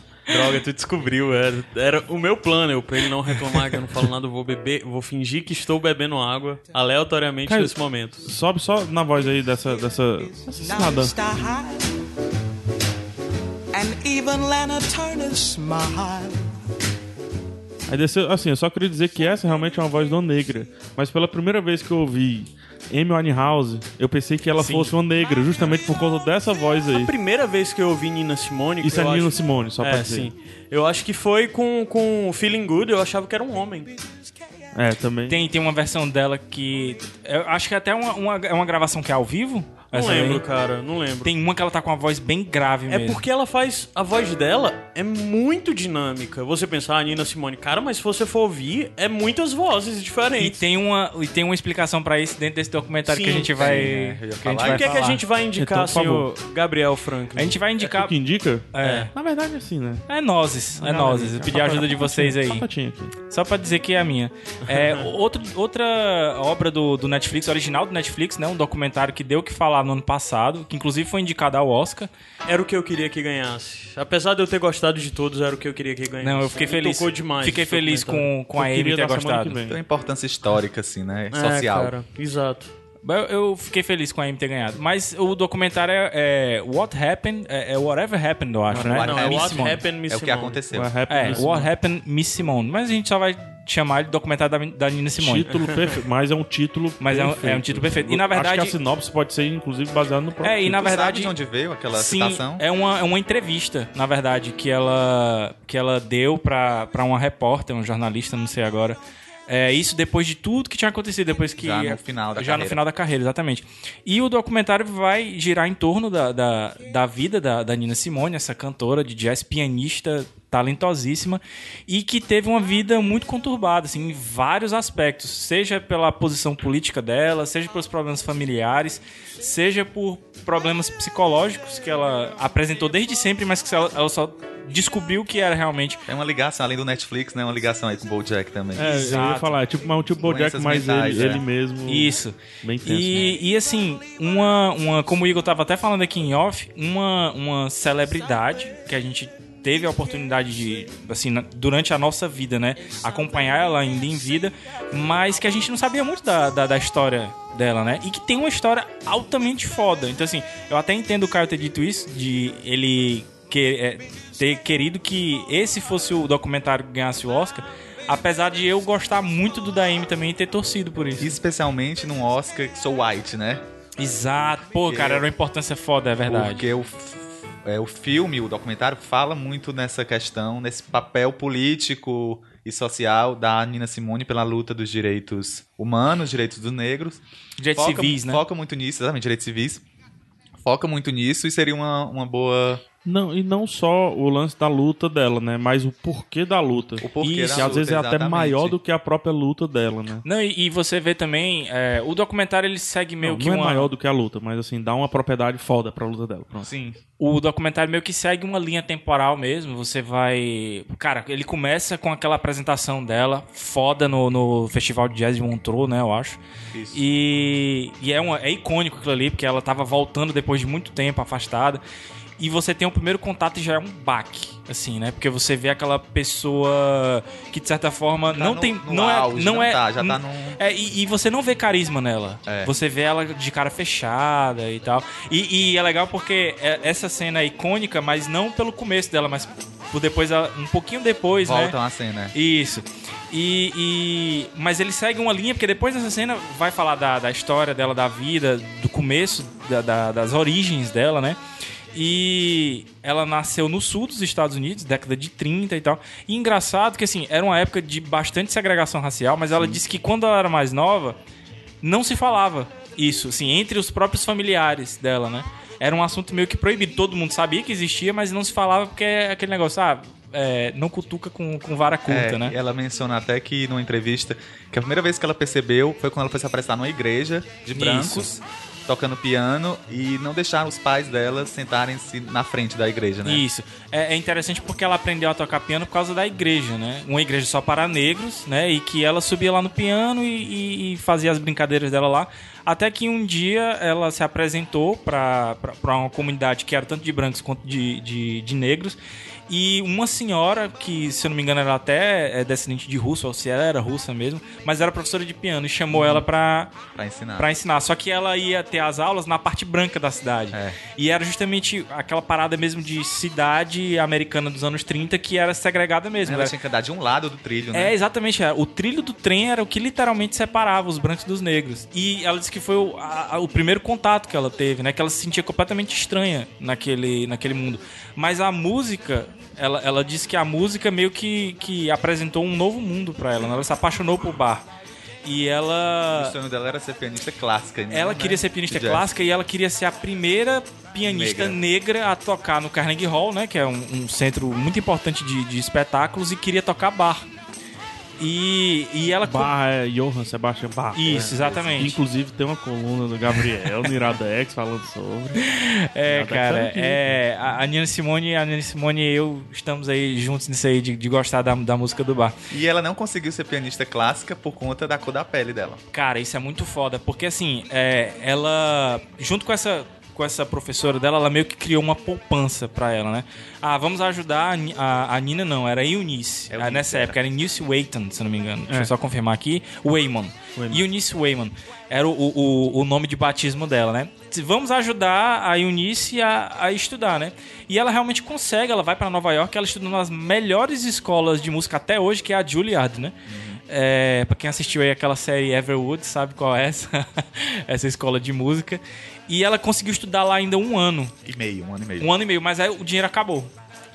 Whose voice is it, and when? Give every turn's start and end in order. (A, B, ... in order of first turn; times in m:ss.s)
0:00.3-0:08.3 A
0:07.5-0:11.2 B
0:09.7-0:12.0 C
0:13.7-0:16.5 C
0:17.9-0:27.1 B
0:24.6-0:24.9 D
0:26.9-0:33.9 A
0:28.8-0:30.3 B
0:34.8-0:35.4 B
0:35.3-0:40.4 D
0:39.9-0:41.3 A
0:41.2-0:43.2 D
0:42.9-0:50.7 A
0:50.4-0:55.2 D
0:53.0-0:53.7 A
0:53.6-0:55.1 E
0:54.6-0:57.6 A
0:55.6-0:56.3 B
0:57.4-0:58.2 D
0:57.8-1:00.0 B
0:58.7-0:59.1 D
0:58.8-0:59.1 A
1:00.1-1:02.7 D
1:00.8-1:03.1 B
1:03.2-1:12.1 D
1:04.7-1:05.1 A
1:12.4-1:18.3 A
1:16.2-1:19.6 D
1:18.6-1:19.8 B
1:19.7-1:21.9 E
1:21.3-1:22.7 A
1:23.0-1:29.8 D
1:28.7-1:29.2 B
1:28.8-1:30.6 A
1:28.9-1:31.0 E
1:30.7-1:31.7 B
1:31.1-1:35.6 D
1:35.2-1:40.8 B
1:37.0-1:38.8 D
1:40.4-1:41.3 D
1:40.7-1:42.6 E
1:41.9-2:16.0 D
1:51.6-1:52.8 E
2:16.1-2:18.9 E
2:18.8-2:23.4 B
2:18.8-2:19.6 D
2:20.2-2:21.4 E
2:21.9-2:51.3 D
2:51.2-2:53.6 E
2:54.0-2:56.7 D
2:54.8-2:55.3 E
2:56.2-3:07.2 E
3:07.6-3:08.4 D
3:07.7-3:09.8 E
3:10.6-3:12.8 E
3:13.0-3:20.2 B
3:17.0-3:18.8 E
3:17.2-3:17.8 D
3:20.2-3:23.9 D
3:23.2-3:26.7 B
3:26.6-3:27.0 E
3:27.2-3:36.4 D
3:36.7-3:37.0 E
3:36.9-3:41.8 D
3:42.4-4:01.8 D
3:48.3-3:50.6 E
3:52.5-3:52.8 E
4:01.4-4:02.4 E
4:02.3-4:11.4 D
4:11.9-4:21.2 D
4:19.6-4:19.8 E
4:21.8-4:32.6 D
4:32.1-4:43.4 E
4:37.7-4:38.3 D
4:43.2-4:59.0 D
4:59.5-5:06.7 D
5:05.9-5:06.2 E
5:07.0-5:07.5 E
5:07.4-5:16.6 D
5:10.5-5:10.8 E
5:16.2-5:18.0 E
5:17.7-5:34.6 D
5:35.2-5:36.4 D
5:36.1-5:39.1 E
5:37.9-5:47.3 D
5:41.0-5:41.6 E
5:48.2-5:49.5 D
5:49.2-5:55.5 B
5:50.9-5:52.0 D
5:53.4-5:53.9 D
5:55.4-6:02.4 D
5:56.1-5:57.2 B
6:02.5-6:05.8 E
6:05.9-6:33.2 D
6:16.5-6:17.2 E
6:20.6-6:20.8 B
6:33.3-6:33.6 E
6:33.7-6:41.2 D
6:41.2-6:42.1 E
6:42.0-6:43.5 D